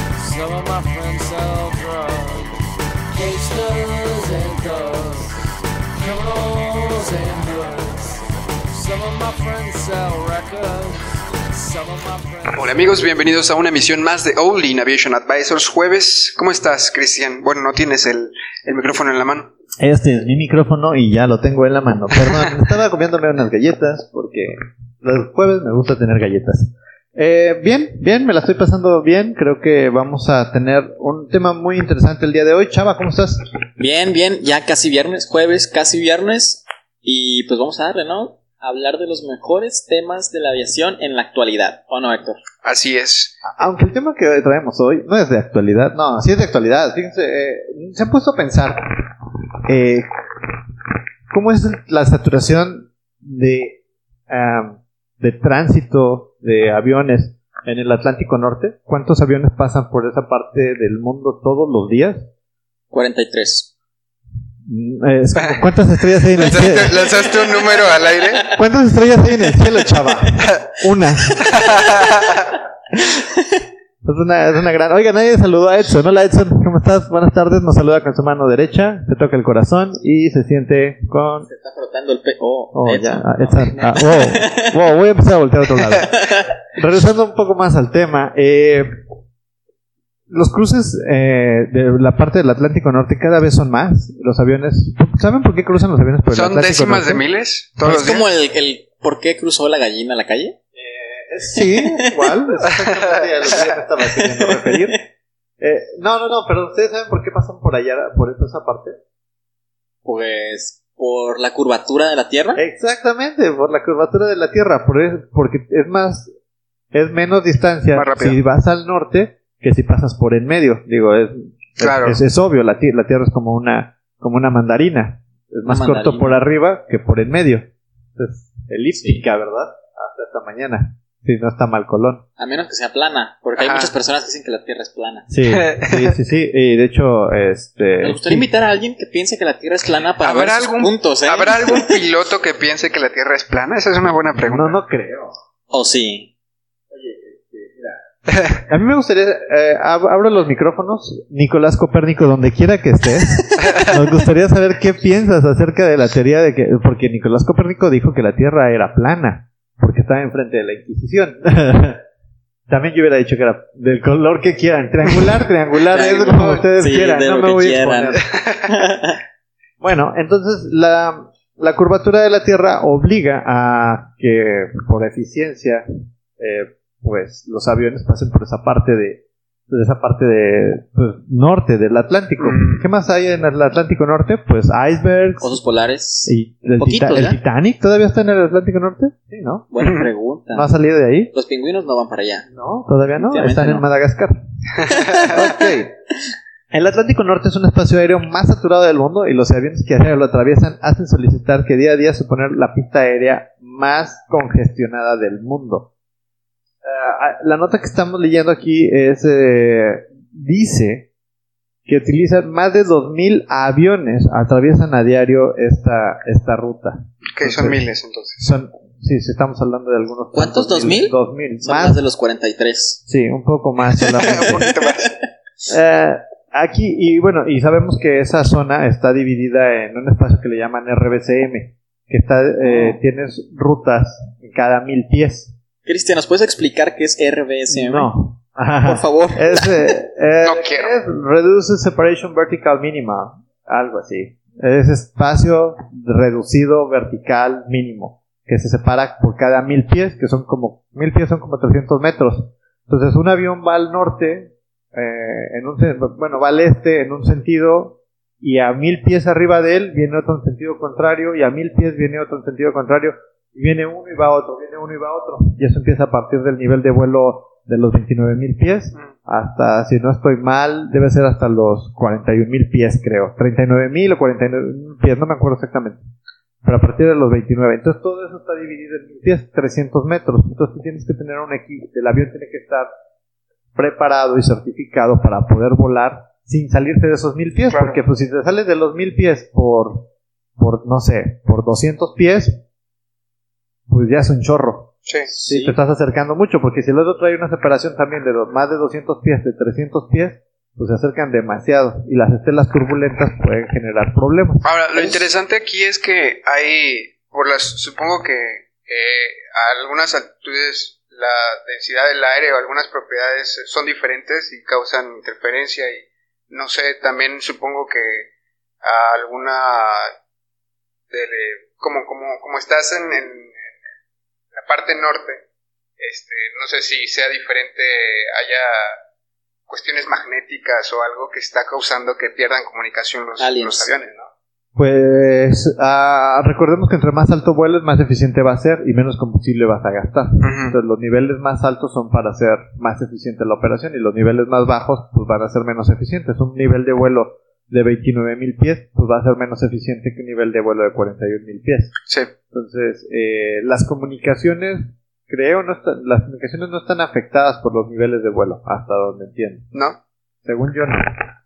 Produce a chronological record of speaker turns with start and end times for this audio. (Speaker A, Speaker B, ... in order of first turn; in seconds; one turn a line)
Speaker A: 0.2-2.6
Speaker A: 3.1-5.3
Speaker A: 6.0-8.2
Speaker A: 8.7-11.0
Speaker A: 11.5-13.0
Speaker B: 12.5-19.5
Speaker C: 19.8-33.4
Speaker D: 33.8-42.4
Speaker B: 42.6-43.4
Speaker C: 43.5-48.8
Speaker C: 49.7-50.1
Speaker C: 51.3-62.3
Speaker D: 62.9-63.7
Speaker C: 64.7-67.0
Speaker B: 65.5-65.7
Speaker B: 66.3-68.5
Speaker D: 66.4-68.7
Speaker C: 68.5-71.4
Speaker D: 69.5-69.9
Speaker B: 71.5-72.4
Speaker C: 74.0-81.5
Speaker D: 81.5-84.8
Speaker C: 82.7-86.1
Speaker D: 85.8-86.5
Speaker C: 86.7-88.9
Speaker C: 90.3-97.2
Speaker B: 96.3-98.3
Speaker D: 97.8-100.6
Speaker C: 100.8-105.1
Speaker D: 101.6-102.3
Speaker B: 103.4-103.7
Speaker D: 104.2-104.9
Speaker C: 105.6-109.0
Speaker D: 110.0-112.6
Speaker C: 112.6-116.3
Speaker C: 116.9-127.6
Speaker B: 118.0-118.4
Speaker B: 121.8-122.2
Speaker D: 125.7-126.4
Speaker C: 128.2-132.2
Speaker D: 128.9-129.2
Speaker D: 132.4-135.3
Speaker B: 133.6-133.9
Speaker C: 135.3-138.5
Speaker B: 135.5-136.1
Speaker D: 138.0-142.0
Speaker B: 140.2-144.8
Speaker C: 144.3-145.3
Speaker D: 145.7-146.3
Speaker C: 146.9-148.0
Speaker C: 148.7-162.0
Speaker C: 162.7-168.3
Speaker D: 165.9-169.2
Speaker B: 168.3-168.6
Speaker C: 169.8-175.8
Speaker C: 176.4-185.6
Speaker B: 182.4-182.8
Speaker D: 185.4-187.4
Speaker C: 186.3-189.7
Speaker D: 189.7-190.7
Speaker C: 190.5-191.3
Speaker D: 191.3-192.5
Speaker C: 192.5-194.4
Speaker D: 193.3-193.9
Speaker D: 194.8-195.5
Speaker C: 195.3-195.9
Speaker C: 196.7-205.9
Speaker C: 206.8-211.1
Speaker C: 211.9-217.8
Speaker B: 217.3-218.4
Speaker C: 218.4-222.0
Speaker D: 220.3-223.0
Speaker C: 223.1-224.7
Speaker B: 224.2-225.1
Speaker D: 224.4-225.1
Speaker C: 225.7-235.5
Speaker D: 232.6-233.0
Speaker D: 235.8-238.1
Speaker C: 237.7-276.0
Speaker D: 238.8-240.0
Speaker B: 240.4-240.9
Speaker C: 276.6-282.9
Speaker C: 283.8-290.1
Speaker B: 287.7-288.0
Speaker C: 290.6-292.6
Speaker C: 293.9-305.2
Speaker D: 295.3-295.8
Speaker B: 304.6-318.3
Speaker B: 318.8-320.1
Speaker B: 321.1-323.6
Speaker B: 324.5-325.4
Speaker B: 326.0-329.0
Speaker B: 329.7-334.3
Speaker D: 333.4-333.9
Speaker C: 334.8-351.9
Speaker B: 340.4-340.8
Speaker C: 352.5-359.7
Speaker C: 360.4-361.1